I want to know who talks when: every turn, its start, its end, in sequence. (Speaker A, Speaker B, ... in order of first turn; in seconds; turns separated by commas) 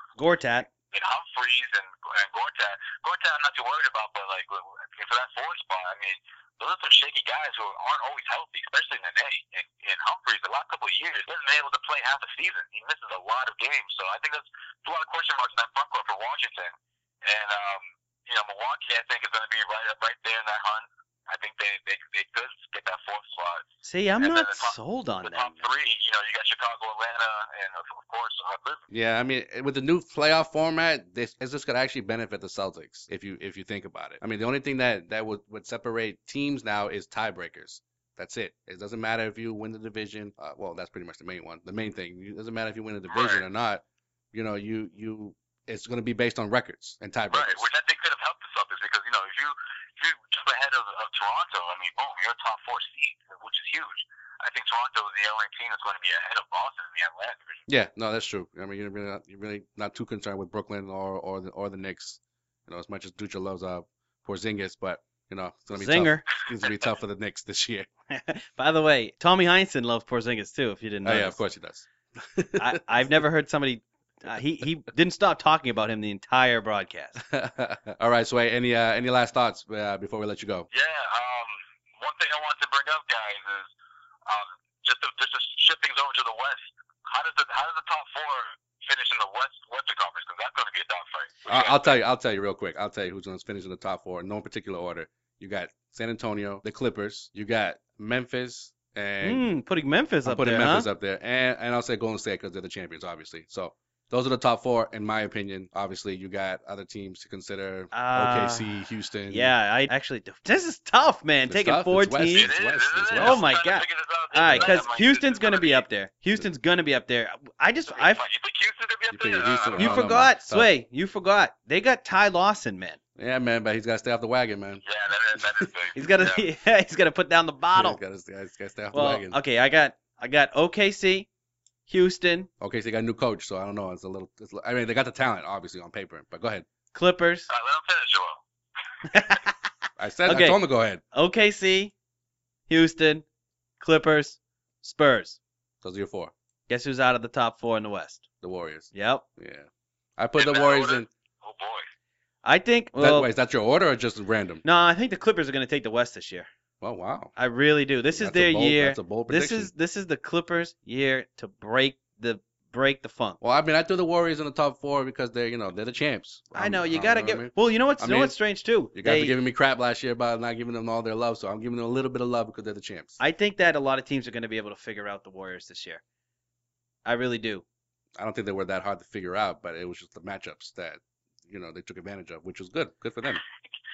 Speaker A: 0.2-0.7, Speaker B: 0.9-23.7, Speaker A: 23.8-25.7, Speaker B: 24.2-28.8, Speaker C: 28.9-47.7, Speaker B: 43.1-43.4, Speaker B: 47.3-57.6, Speaker C: 57.7-67.9, Speaker A: 65.7-66.3, Speaker A: 68.1-71.4, Speaker C: 71.0-72.8, Speaker A: 72.6-77.2, Speaker C: 77.2-80.7, Speaker B: 80.7-83.7, Speaker B: 84.3-91.9, Speaker C: 91.5-99.5, Speaker A: 99.2-100.9, Speaker C: 100.2-109.5, Speaker A: 107.9-112.5, Speaker C: 111.5-113.5, Speaker B: 112.3-115.8, Speaker A: 113.2-118.2, Speaker C: 114.5-114.8, Speaker B: 117.9-120.2, Speaker C: 119.1-120.7, Speaker A: 119.8-123.0, Speaker C: 123.2-124.8, Speaker B: 124.8-126.4, Speaker C: 125.4-125.7, Speaker A: 126.0-128.0, Speaker C: 127.8-129.4, Speaker A: 128.9-131.3, Speaker A: 131.9-132.5, Speaker C: 132.6-136.7, Speaker A: 136.9-137.5, Speaker B: 137.5-138.4, Speaker A: 139.1-139.5, Speaker C: 140.0-141.0, Speaker A: 140.3-140.6, Speaker A: 141.1-141.9, Speaker A: 142.7-143.2, Speaker A: 143.8-145.4, Speaker C: 145.8-146.3, Speaker A: 146.7-148.2, Speaker C: 148.4-151.1, Speaker A: 148.9-149.2, Speaker B: 150.4-151.9, Speaker A: 152.4-153.3, Speaker C: 153.0-154.6, Speaker A: 154.6-156.5, Speaker C: 156.8-157.3, Speaker A: 157.4-163.4, Speaker C: 158.1-159.7, Speaker C: 163.4-168.3, Speaker A: 166.5-169.4, Speaker C: 168.9-173.2, Speaker A: 173.2-176.0, Speaker A: 177.1-177.6, Speaker C: 178.2-183.4